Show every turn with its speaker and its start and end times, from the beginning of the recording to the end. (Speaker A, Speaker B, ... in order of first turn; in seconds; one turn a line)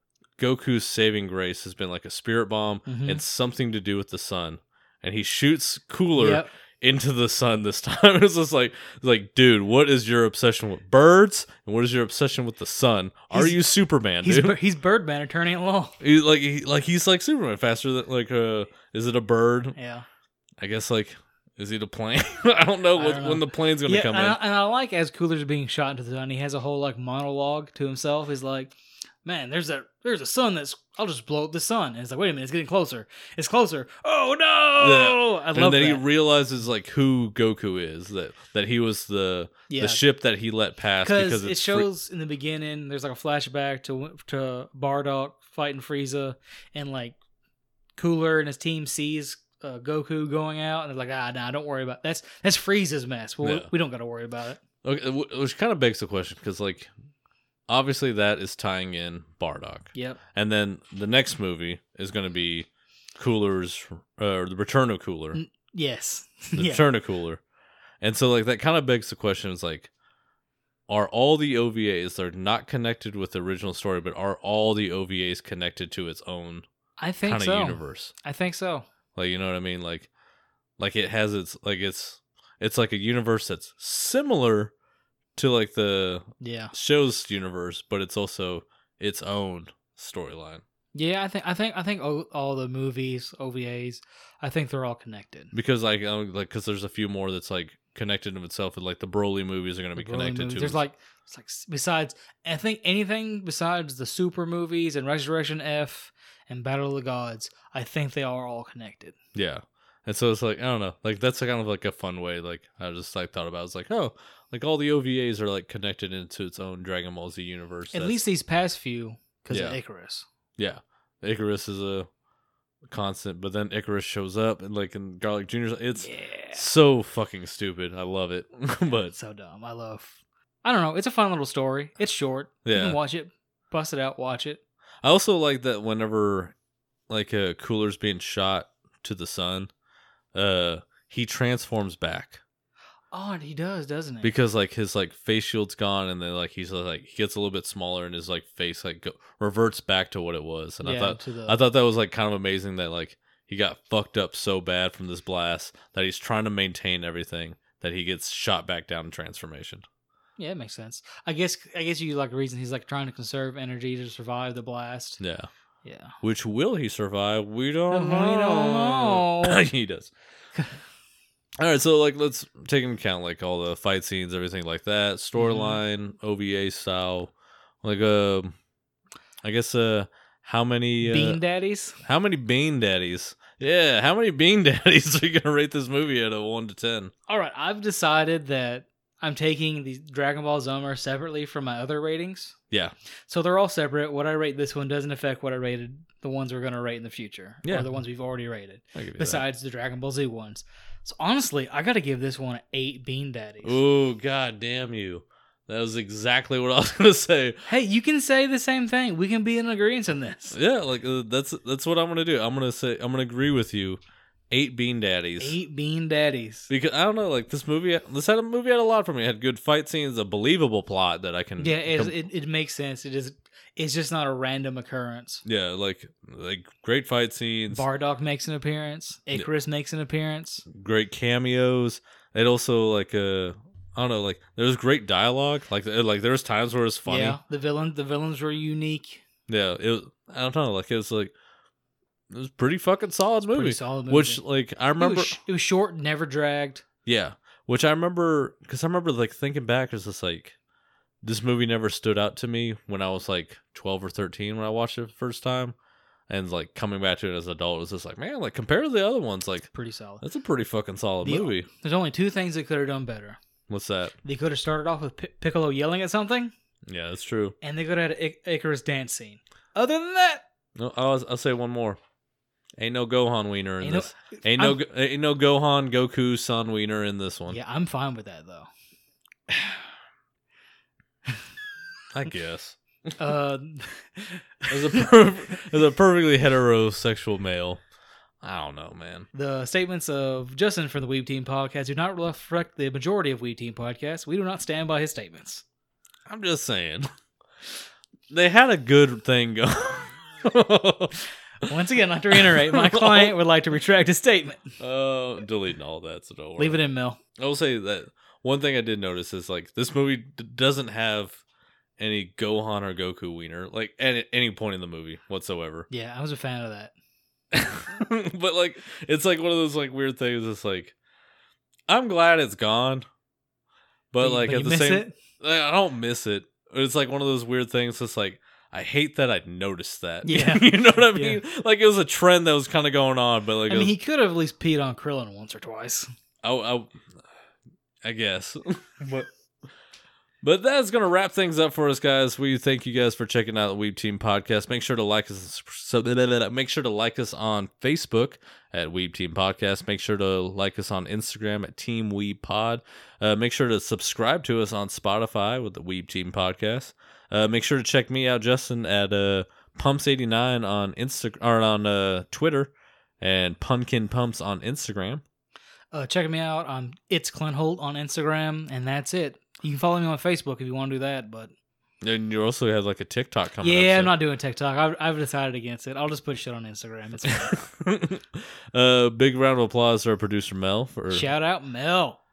Speaker A: 0.4-14.6
Speaker B: 2.9-3.2
Speaker B: 6.2-6.5
Speaker B: 13.3-13.6
Speaker B: 14.2-16.0
Speaker A: 16.0-19.8
Speaker B: 19.7-20.1
Speaker A: 20.6-24.4
Speaker B: 22.9-36.0
Speaker A: 34.8-41.9
Speaker B: 39.7-40.0
Speaker B: 41.0-47.1
Speaker B: 48.0-54.6
Speaker A: 53.4-53.7
Speaker A: 54.8-56.9
Speaker A: 57.7-65.4
Speaker B: 59.9-60.2
Speaker B: 65.3-66.8
Speaker A: 66.5-67.4
Speaker A: 68.0-69.9
Speaker A: 70.9-76.7
Speaker B: 77.0-78.9
Speaker A: 77.2-78.1
Speaker A: 79.1-80.1
Speaker A: 80.8-84.7
Speaker A: 85.3-90.6
Speaker B: 86.4-86.7
Speaker B: 90.9-95.5
Speaker A: 95.5-100.8
Speaker B: 100.0-109.2
Speaker A: 109.3-118.2
Speaker B: 117.9-120.2
Speaker A: 119.5-119.8
Speaker A: 120.6-122.1
Speaker A: 122.9-129.1
Speaker B: 126.0-126.6
Speaker B: 129.1-134.6
Speaker A: 132.6-133.0
Speaker A: 135.0-136.5
Speaker A: 137.1-139.7
Speaker A: 140.3-142.4
Speaker B: 143.1-144.3
Speaker A: 144.2-159.8
Speaker B: 150.8-151.6
Speaker B: 160.4-165.2
Speaker A: 165.2-165.5
Speaker B: 165.8-166.2
Speaker A: 166.2-170.1
Speaker B: 167.9-169.6
Speaker A: 171.6-177.3
Speaker B: 175.3-175.8
Speaker A: 177.8-178.6
Speaker A: 179.4-181.4
Speaker B: 181.0-182.0
Speaker A: 182.0-187.1
Speaker B: 187.3-192.6
Speaker B: 193.3-203.8
Speaker A: 197.6-197.9
Speaker A: 198.9-199.4
Speaker A: 203.6-207.7
Speaker B: 207.7-210.6
Speaker A: 210.5-215.6
Speaker B: 215.4-216.7
Speaker A: 216.7-222.1
Speaker B: 221.6-225.4
Speaker A: 225.4-227.8
Speaker B: 227.7-230.6
Speaker A: 230.7-237.4
Speaker B: 237.1-239.2
Speaker A: 239.5-241.3
Speaker A: 242.3-245.4
Speaker B: 243.5-244.4
Speaker B: 245.0-246.8
Speaker A: 247.0-250.5
Speaker A: 251.2-255.7
Speaker A: 256.3-261.7
Speaker B: 259.7-260.2
Speaker B: 261.2-263.4
Speaker A: 263.7-264.1
Speaker B: 264.2-266.5
Speaker A: 266.9-267.5
Speaker B: 267.6-270.4
Speaker A: 270.8-272.0
Speaker A: 272.8-277.6
Speaker B: 273.8-274.8
Speaker B: 277.5-278.7
Speaker A: 282.1-283.1
Speaker B: 283.2-285.1
Speaker A: 284.7-287.8
Speaker A: 288.4-289.3
Speaker B: 289.3-295.6
Speaker A: 296.3-297.1
Speaker A: 298.3-301.7
Speaker B: 301.6-304.7
Speaker A: 302.3-303.3
Speaker A: 304.8-306.8
Speaker B: 306.6-307.2
Speaker A: 307.4-311.4
Speaker A: 312.0-315.9
Speaker B: 315.9-316.9
Speaker A: 317.5-320.9
Speaker A: 321.9-323.1
Speaker A: 324.1-333.9
Speaker B: 324.2-325.2
Speaker B: 330.2-331.4
Speaker B: 333.7-336.1
Speaker A: 336.4-337.0
Speaker A: 338.0-339.3
Speaker A: 340.4-365.2
Speaker B: 365.9-371.5
Speaker A: 372.0-374.1
Speaker B: 373.6-377.6
Speaker A: 377.3-381.3
Speaker B: 381.1-382.2